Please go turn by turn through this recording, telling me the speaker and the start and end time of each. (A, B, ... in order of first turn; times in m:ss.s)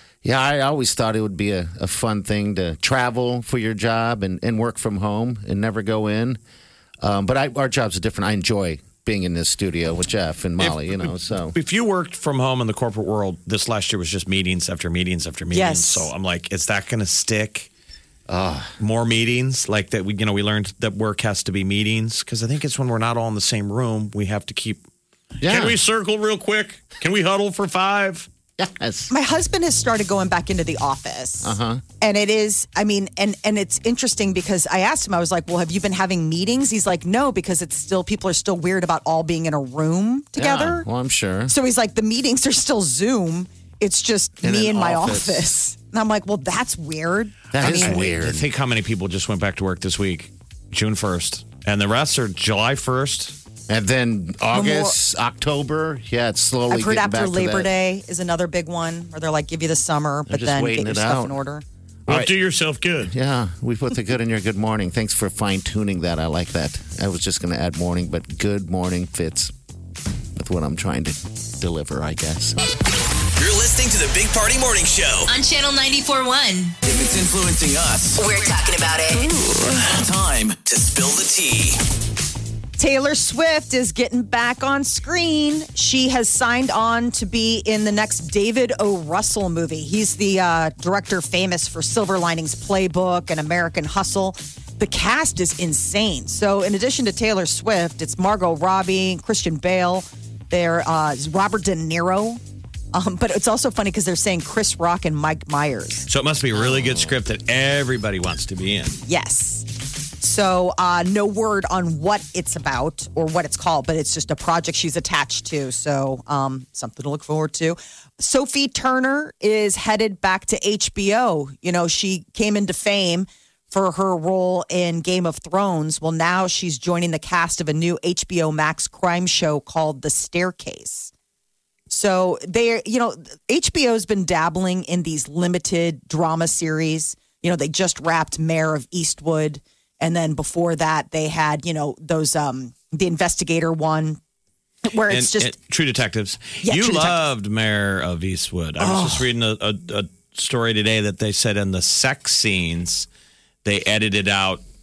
0:00.2-0:06.4 A
0:07.0-0:11.6 A
0:10.6-0:17.7 B
0:15.5-0:16.1 C
0:18.3-0:18.7 A
0:18.8-0:24.8 B
0:25.4-0:28.3 B
0:25.4-0:25.8 A
0:28.6-0:29.1 A
0:29.1-0:40.8 C
0:31.4-0:31.8 A
0:40.4-0:41.5 A
0:41.5-0:48.0 C
0:44.4-0:45.5 A
0:47.5-0:48.5 A
0:47.6-0:53.4 B
0:53.7-0:57.7 A
0:54.5-0:54.9 C
0:56.7-1:01.6 C
1:00.3-1:01.4 A
1:02.1-1:02.3 A
1:02.1-1:03.1 B
1:03.0-1:09.5 A
1:10.4-1:12.6 A
1:13.4-1:15.3 D
1:15.3-1:16.7 E
1:16.8-1:18.2 D
1:18.2-1:19.3 E
1:19.4-1:21.8 D
1:22.8-1:42.4 C
1:42.9-1:46.1 C
1:46.1-1:49.0 B
1:46.5-1:47.1 A
1:49.1-1:49.6 C
1:50.2-2:11.1 C
2:11.9-2:24.2 C
2:24.8-2:25.5 C
2:25.1-2:33.1 B
2:26.6-2:27.2 C
2:28.8-2:29.2 C
2:33.6-2:34.6 B